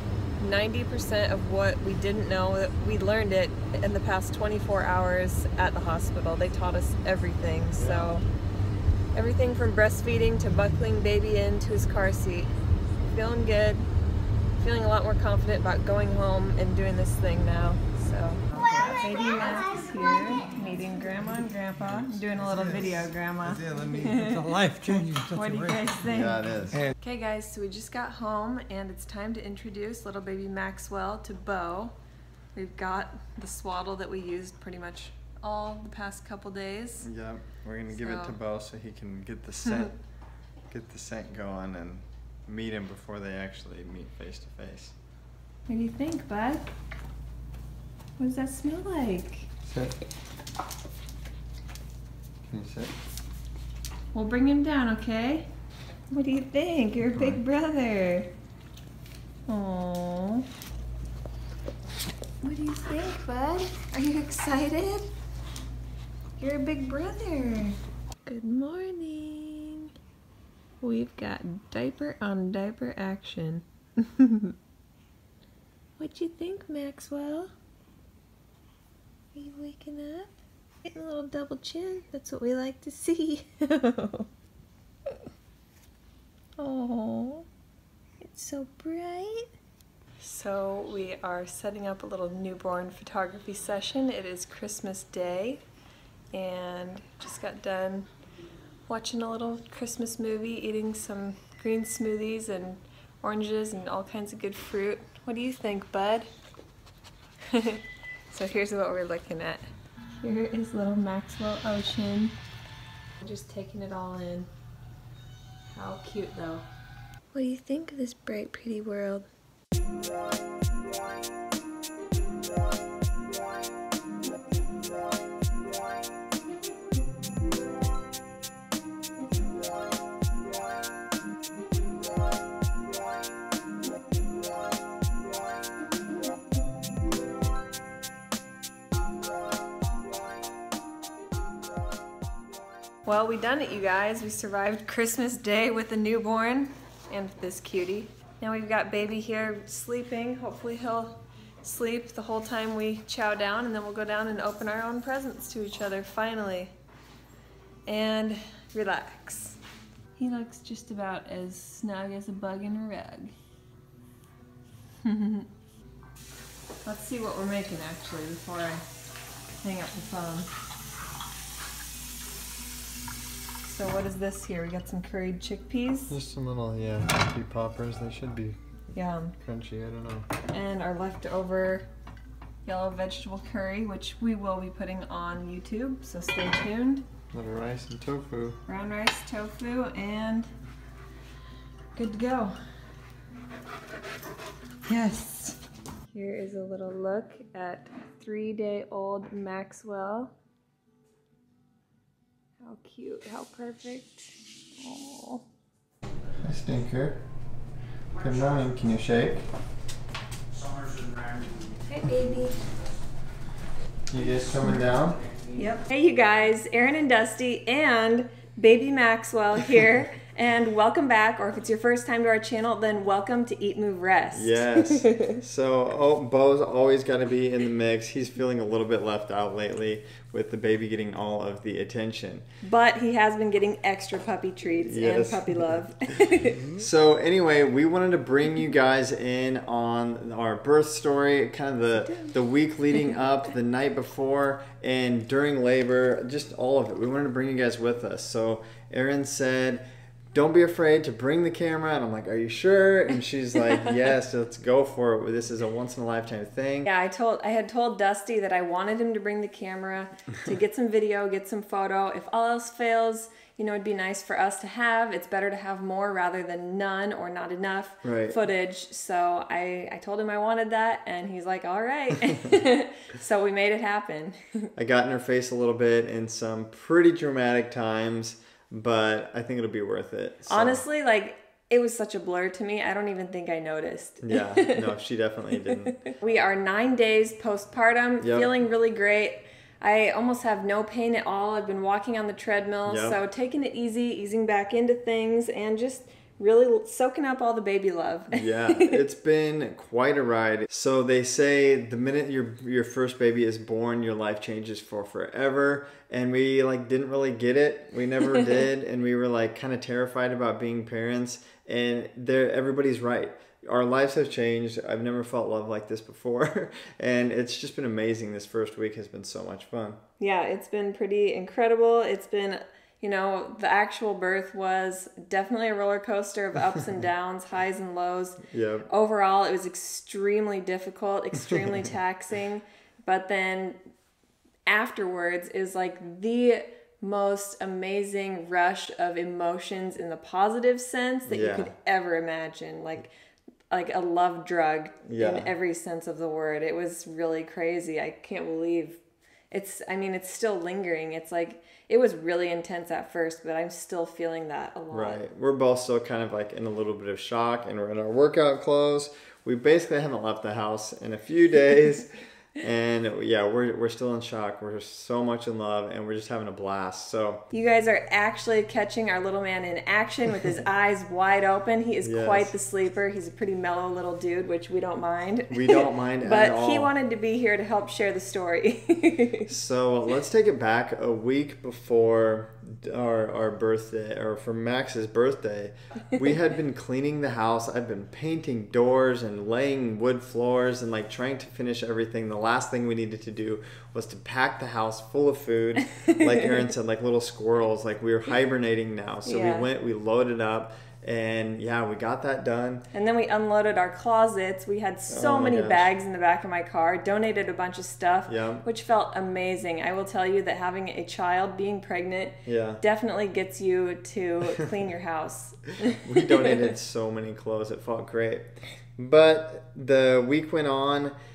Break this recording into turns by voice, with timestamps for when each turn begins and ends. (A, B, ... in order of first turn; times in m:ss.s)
0:00.4-0:08.2 A
0:07.8-0:08.1 B
0:09.1-0:12.5 A
0:13.1-0:13.9 A
0:14.6-0:31.9 A
0:21.8-0:24.2 B
0:26.0-0:26.8 B
0:32.6-0:37.1 A
0:37.0-0:40.0 B
0:37.9-0:38.4 A
0:40.7-0:45.0 B
0:45.7-0:46.7 A
0:48.2-0:49.5 A
0:49.7-0:50.0 B
0:52.5-0:52.9 B
0:54.1-0:55.5 A
0:56.1-0:58.3 A
0:57.1-0:57.4 B
0:59.5-1:00.5 A
1:02.4-1:05.1 A
1:06.4-1:09.9 A
1:10.8-1:14.6 A
1:16.0-1:17.5 A
1:19.3-1:20.3 A
1:20.8-1:24.3 A
1:26.6-1:27.5 A
1:28.2-1:29.5 A
1:30.2-1:35.6 A
1:36.3-1:38.1 A
1:38.9-1:46.3 A
1:47.5-1:49.6 A
1:50.2-1:52.4 A
1:53.2-1:54.5 A
1:55.7-1:56.6 A
1:57.3-1:59.3 A
2:23.0-2:36.7 A
2:37.9-2:39.6 A
2:40.2-2:43.3 A
2:45.0-2:45.5 A
2:46.8-2:48.8 A
2:49.6-2:50.5 A
2:53.6-2:56.2 A
2:56.1-2:58.6 B
2:58.9-2:59.4 A
2:59.4-3:00.3 B
3:00.5-3:01.9 A
3:02.6-3:07.1 A
3:07.3-3:08.6 B
3:08.7-3:10.5 A
3:12.0-3:12.6 A
3:14.9-3:15.6 A
3:16.1-3:20.3 A
3:22.6-3:25.4 A
3:26.4-3:27.2 B
3:28.2-3:29.5 B
3:31.9-3:32.6 A
3:34.1-3:35.2 B
3:35.6-3:45.4 A
3:44.3-3:52.4 B
3:52.6-3:56.7 A
3:54.8-3:55.6 B
3:56.7-4:16.9 B
4:02.0-4:02.3 A
4:16.8-4:34.7 A
4:28.0-4:28.4 B
4:34.8-4:40.8 B
4:40.5-4:44.9 A
4:44.2-4:46.0 B
4:46.0-4:59.0 A
4:48.2-4:48.5 B
4:52.9-4:53.2 B
4:58.3-5:20.0 B
5:20.2-5:33.8 A
5:28.4-5:28.9 B
5:31.4-5:31.7 B
5:34.7-5:43.1 A
5:41.3-5:41.7 B
5:43.7-5:49.0 A
5:45.1-5:45.5 B
5:49.5-5:55.2 A
5:54.9-6:07.4 B
6:07.5-6:19.5 A
6:12.0-6:12.5 B
6:15.5-6:16.9 B
6:19.5-6:42.8 B
6:36.0-6:36.6 A
6:39.2-6:39.7 A
6:42.9-6:56.5 A
6:45.1-6:45.9 B
6:48.3-6:48.6 B
6:52.5-6:52.8 B
6:55.9-7:01.2 B